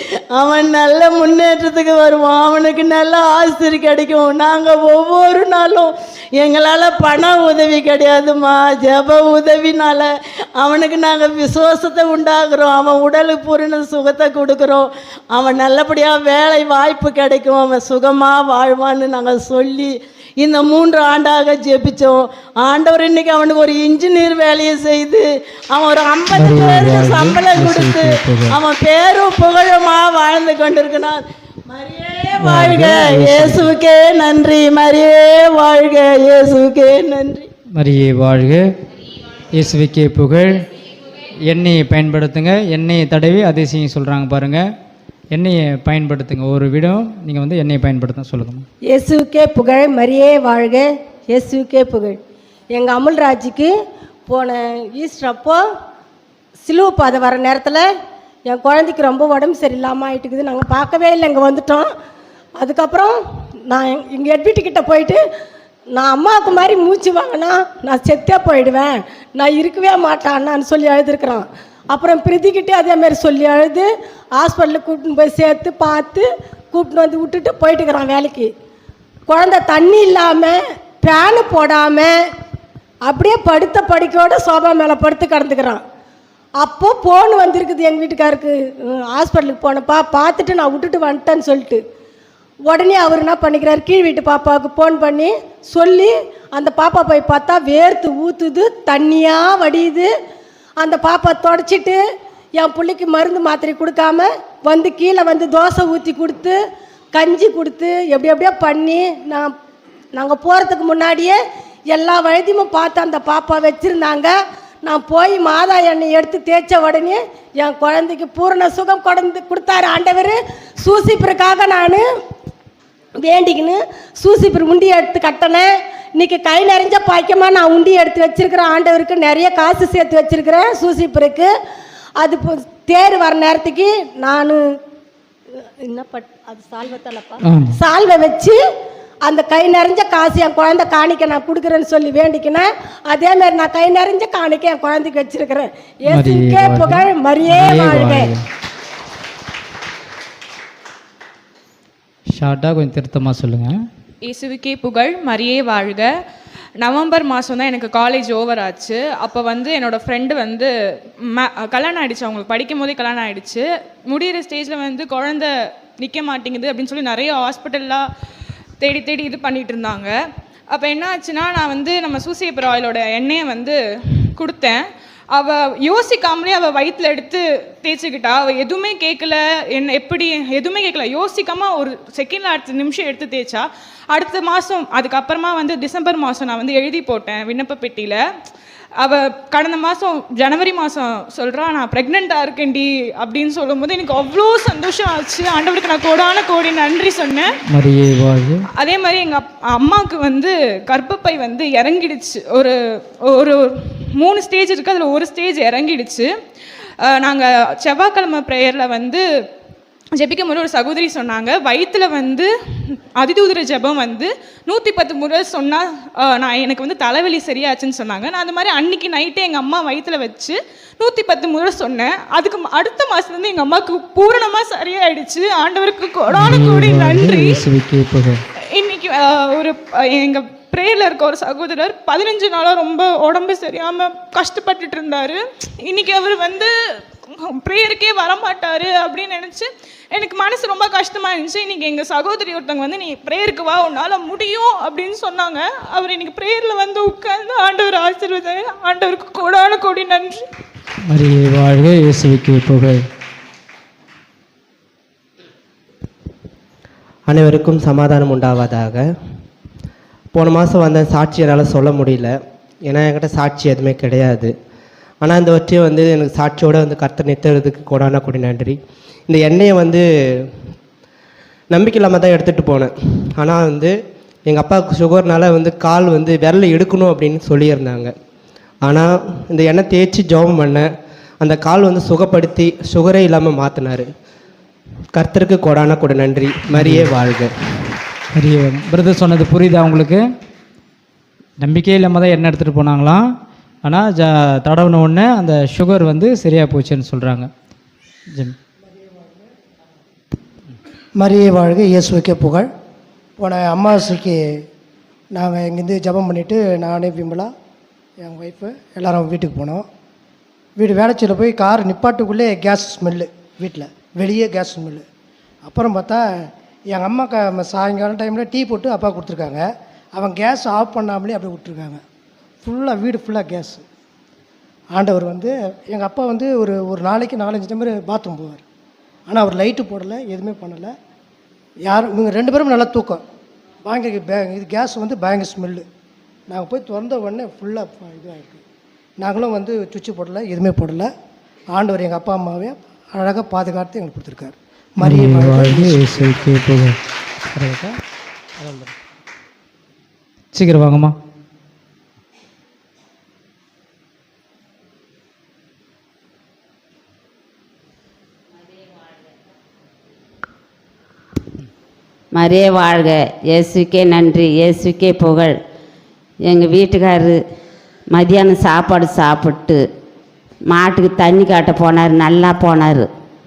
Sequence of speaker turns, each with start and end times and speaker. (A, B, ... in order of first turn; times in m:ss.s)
0:00.3-0:37.5 A
0:26.3-0:28.6 B
0:32.4-0:33.7 B
0:37.8-0:38.6 B
0:39.5-0:40.7 B
0:41.5-0:44.6 B
0:45.3-0:48.6 B
0:48.9-0:52.2 C
0:52.7-0:53.7 C
0:54.3-0:55.6 C
0:56.6-0:57.9 C
0:58.5-1:01.9 C
1:02.6-1:03.2 C
1:03.7-1:05.2 C
1:06.0-1:18.5 C
1:19.3-1:22.1 C
1:23.1-1:25.8 C
1:26.6-1:31.8 C
1:32.7-1:40.1 C
1:40.8-1:42.0 C
1:42.6-1:46.6 C
1:47.1-1:49.5 C
1:50.1-1:51.4 C
1:51.9-2:02.0 C
2:03.2-2:11.5 C
2:12.2-2:14.6 C
2:15.9-2:18.6 C
2:17.4-2:17.8 B
2:19.2-2:28.3 C
2:26.1-2:28.4 B
2:32.3-2:33.8 B
2:34.2-2:36.1 D
2:36.8-2:40.7 D
2:41.3-2:48.0 D
2:48.8-2:50.1 D
2:50.7-2:53.8 D
2:54.4-2:54.8 D
2:55.3-3:08.2 D
3:09.0-3:17.5 D
3:17.7-3:18.6 B
3:18.8-3:22.7 D
3:23.3-3:26.3 D
3:27.0-3:29.2 D
3:30.2-3:32.5 D
3:33.2-3:47.6 D
3:46.3-3:48.4 B
3:48.8-3:56.7 D
3:57.5-4:10.4 D
4:11.1-4:13.0 B
4:17.3-4:19.1 E
4:20.3-4:22.4 E
4:22.9-4:24.5 E
4:25.2-4:30.0 E
4:31.7-4:33.9 E
4:34.5-4:38.1 E
4:38.8-4:40.9 E
4:41.4-4:44.1 E
4:45.1-4:47.5 E
4:46.8-4:47.1 B
4:48.3-4:50.2 B
4:51.6-4:53.2 B
4:53.8-4:57.5 B
5:01.2-5:02.7 F
5:03.4-5:04.4 F
5:05.3-5:07.5 F
5:08.2-5:09.9 F
5:10.8-5:15.0 F
5:15.6-5:16.2 F
5:16.9-5:22.0 F
5:22.6-5:23.8 F
5:24.9-5:28.6 F
5:29.3-5:30.9 F
5:31.9-5:33.2 F
5:33.8-5:35.8 F
5:36.5-5:38.6 F
5:39.2-5:41.1 F
5:41.7-5:46.4 F
5:45.0-5:47.0 B
5:47.6-5:48.0 B
5:48.6-5:48.9 B
5:50.5-5:51.2 B
6:02.3-6:05.6 G
6:06.4-6:07.4 G
6:08.1-6:09.8 G
6:10.7-6:13.1 G